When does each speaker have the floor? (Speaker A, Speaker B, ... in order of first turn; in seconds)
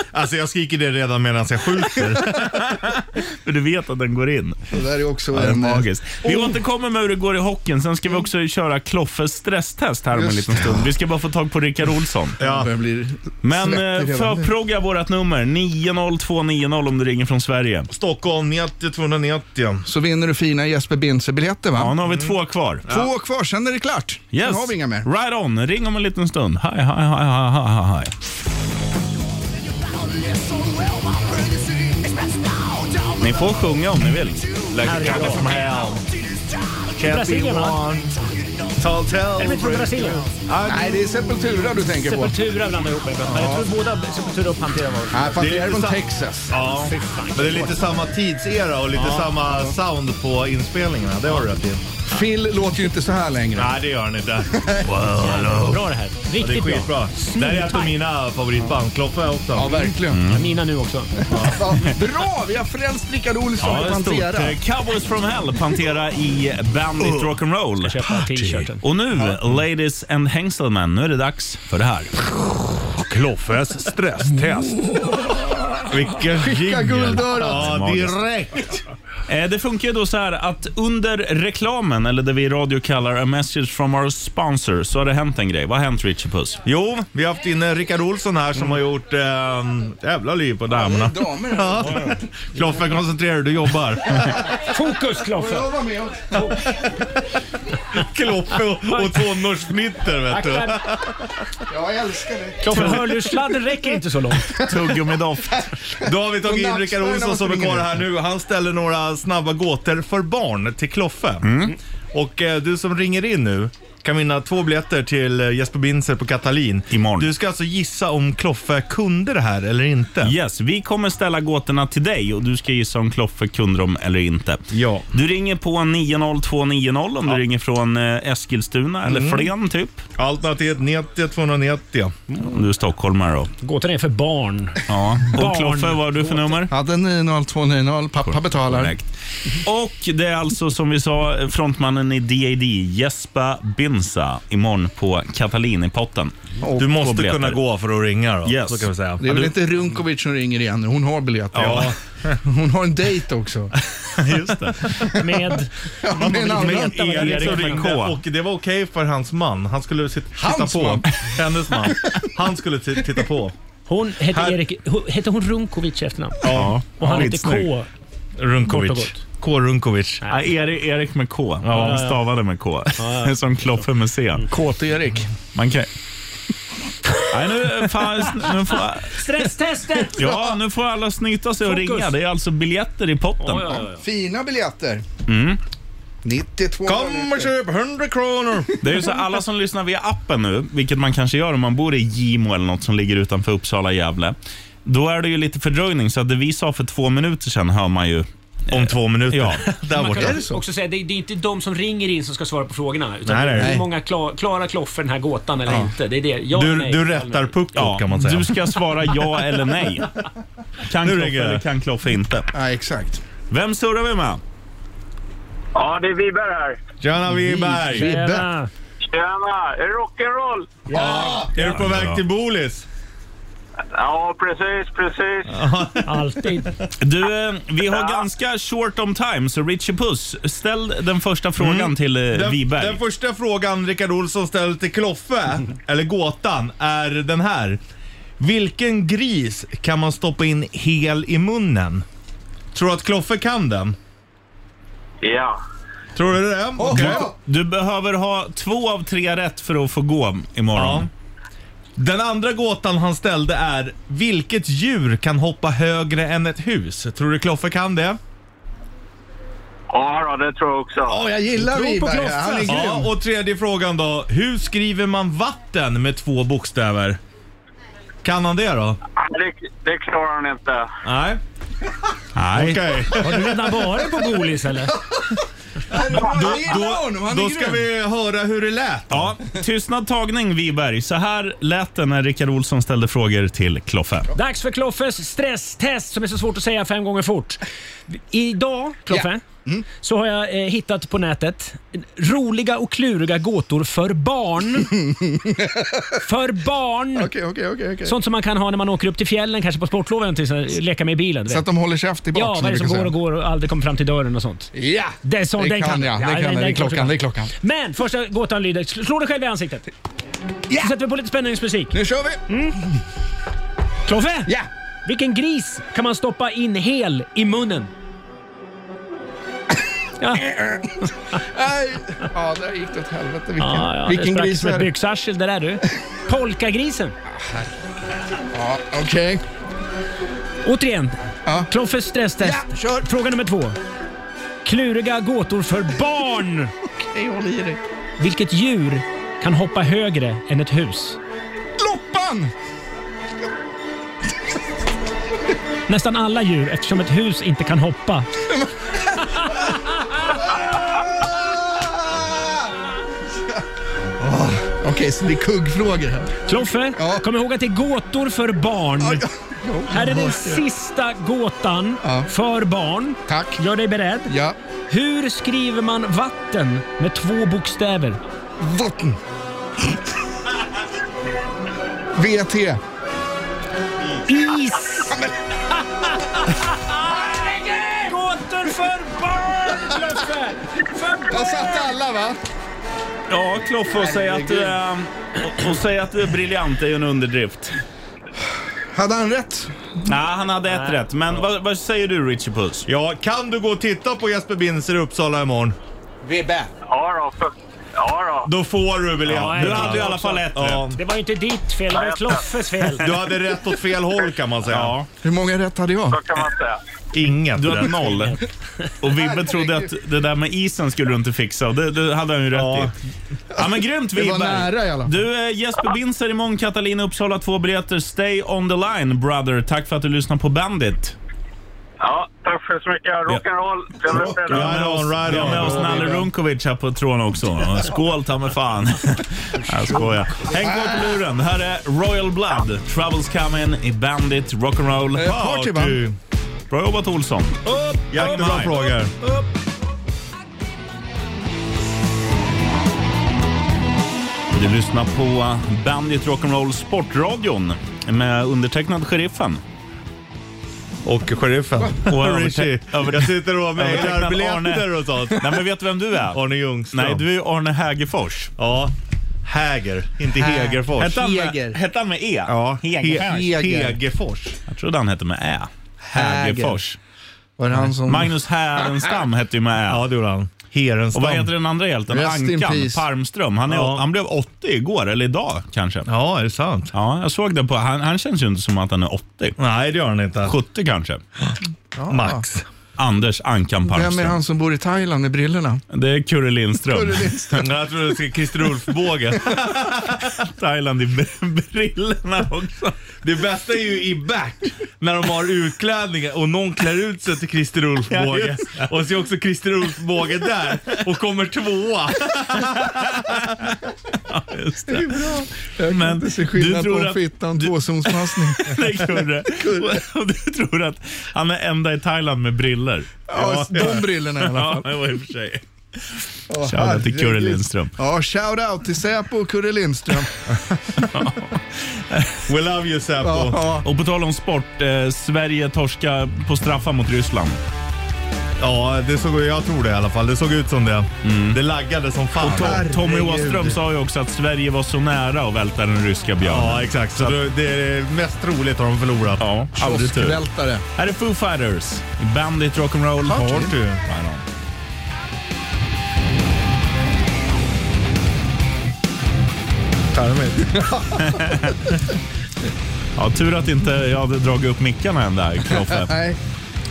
Speaker A: 0.1-2.6, 6.2-6.5, 12.4-12.7, 17.9-19.8, 22.0-22.3, 34.7-36.0, 37.0-38.2, 38.7-41.0, 45.4-51.8, 53.5-59.9, 61.3-61.7, 68.2-68.7, 72.8-74.9, 75.8-78.8, 86.6-94.4, 96.4-96.9, 97.9-101.3, 106.0-111.5, 112.1-120.3, 124.7-125.1, 129.1-129.5, 130.2-132.2, 146.8-149.5, 151.5-152.3, 156.2-163.6, 164.3-164.6, 166.4-166.8, 168.4-170.2, 171.6-172.1, 186.8-188.8, 198.7-200.4, 203.2-203.8, 206.5-208.7, 211.0-211.6, 217.0-218.3, 220.9-222.8, 225.5-226.3, 231.6-237.8, 238.4-242.0, 242.7-244.0, 246.1-247.3, 250.7-251.1, 251.9-258.2, 262.6-267.2, 268.2-269.0, 271.0-271.4, 272.5-273.8, 275.9-279.4, 392.9-395.8, 398.4-401.0, 402.9-404.9, 407.1-408.3, 412.5-412.9, 424.1-426.3, 430.4-431.0, 435.2-436.2, 438.0-439.1, 451.0-455.6, 456.3-457.2, 458.6-461.2, 462.5-464.6, 469.9-471.5, 473.7-474.0, 476.1-476.9, 479.6-480.6, 482.1-482.7, 487.6-490.4, 493.2-503.6, 513.3-514.0, 522.5-523.6, 528.6-532.9, 536.4-539.4, 543.4-544.0, 550.2-550.5
Speaker B: 2.1-4.6, 5.3-12.4, 13.4-17.9, 21.8-22.9, 24.3-28.1, 33.2-35.5, 60.1-60.5, 63.6-68.0, 68.8-72.2, 77.1-78.2, 79.3-86.6, 102.7-103.0, 104.5-105.7, 111.4-111.8, 116.9-117.3, 120.2-130.0, 132.4-133.5, 134.9-136.7, 138.3-147.6, 148.4-149.5, 151.6-151.9, 154.1-155.1, 157.0-158.2, 166.4-167.7, 170.3-174.4, 175.5-175.9, 177.3-179.2, 180.2-183.8, 185.3-185.6, 188.8-199.8, 207.7-210.2, 210.8-212.5, 213.5-214.4, 221.7-222.2, 227.0-233.0, 246.9-251.1, 272.4-273.1, 279.1-284.3, 383.3-387.8, 390.1-392.9, 399.3-400.9, 404.7-405.1, 407.6-408.4, 409.0-412.9, 413.6-421.1, 424.4-435.3, 436.7-439.0, 444.5-449.6, 452.1-458.5, 461.0-463.6, 464.7-467.0, 468.0-470.1, 471.1-476.1, 476.9-479.6, 480.4-481.2, 483.0-484.4, 485.9-487.6, 490.2-493.0, 498.1-498.9, 502.6-503.7, 504.3-505.3, 505.9-517.9, 521.0-522.4, 523.8-527.6, 531.2-531.6, 532.4-537.4, 539.4-540.4, 541.0-544.4, 551.2-551.9, 553.1-556.1
Speaker C: 4.7-5.8, 10.1-10.8, 12.4-14.5, 19.9-21.9, 22.9-25.1, 40.6-42.4, 43.3-43.7, 45.1-46.7, 49.3-49.7, 52.1-53.8, 54.5-54.9, 59.5-60.2, 61.3-64.6, 75.0-75.8, 76.4-77.7, 90.7-92.2, 95.3-96.6, 101.7-102.8, 105.9-108.0, 136.7-138.9, 149.2-153.7, 154.9-155.3, 156.0-157.7, 160.4-161.1, 174.5-175.3, 180.2-180.5, 184.0-185.0, 186.2-187.5, 200.1-200.6, 212.5-213.2, 217.5-218.4, 246.8-247.3, 261.1-263.1, 275.9-277.9, 289.1-289.8, 294.9-296.2, 297.1-298.1, 301.5-303.1, 304.7-307.5, 311.9-312.4, 320.4-320.8, 321.4-324.9, 327.4-327.6, 328.5-329.4, 332.4-333.1, 337.1-337.8, 341.8-342.5, 348.5-349.2, 351.2-352.7, 354.2-356.4, 356.9-357.3, 359.0-360.6, 362.0-362.3, 363.3-363.6, 364.3-364.6, 368.6-369.2, 372.1-372.8, 381.3-382.4, 383.9-384.8, 388.9-389.7, 396.2-396.7, 405.2-406.2, 409.1-409.9, 414.1-415.1, 425.9-426.1, 435.1-436.0, 460.4-461.8, 463.2-464.0, 466.1-466.8, 467.6-469.1, 472.1-473.0, 481.9-482.4, 483.9-485.8, 486.9-487.6, 504.9-510.0, 513.3-514.9, 516.5-520.4, 523.2-523.8, 532.4-533.8, 539.8-540.8, 543.3-543.7, 550.6-551.4, 555.9-556.4
Speaker D: 34.8-35.5, 37.0-37.8, 39.4-40.3, 41.9-45.4, 46.7-47.9, 55.1-57.9, 60.3-61.1, 67.8-68.8, 94.6-95.7, 98.8-99.2, 100.3-100.8, 102.6-104.5, 133.6-136.6, 155.1-157.8, 163.8-167.9, 168.7-169.2, 170.2-170.5, 171.7-172.2, 173.0-173.3, 179.1-180.2, 181.6-182.1, 183.4-184.0, 199.9-207.6, 217.8-218.7, 220.9-221.8, 226.0-226.7, 261.5-262.8, 273.2-274.9, 284.3-289.4, 290.0-294.9, 296.2-297.3, 298.0-301.6, 302.3-304.7, 305.2-309.9, 310.7-311.9, 312.5-312.8, 314.1-317.9, 320.2-321.1, 323.6-327.1, 330.6-331.2, 331.7-333.8, 334.6-336.7, 338.2-341.2, 345.9-348.3, 349.4-349.7, 356.5-359.2, 359.9-364.3, 364.9-368.2, 374.3-375.2, 376.3-382.0, 390.6-391.0, 399.3-403.1, 408.2-408.9
Speaker E: 215.7-216.8, 219.1-220.8, 223.9-225.5, 227.9-228.2, 245.2-245.6, 259.9-261.1, 269.2-270.9, 396.9-398.5, 401.9-402.4, 406.1-406.8, 422.0-424.8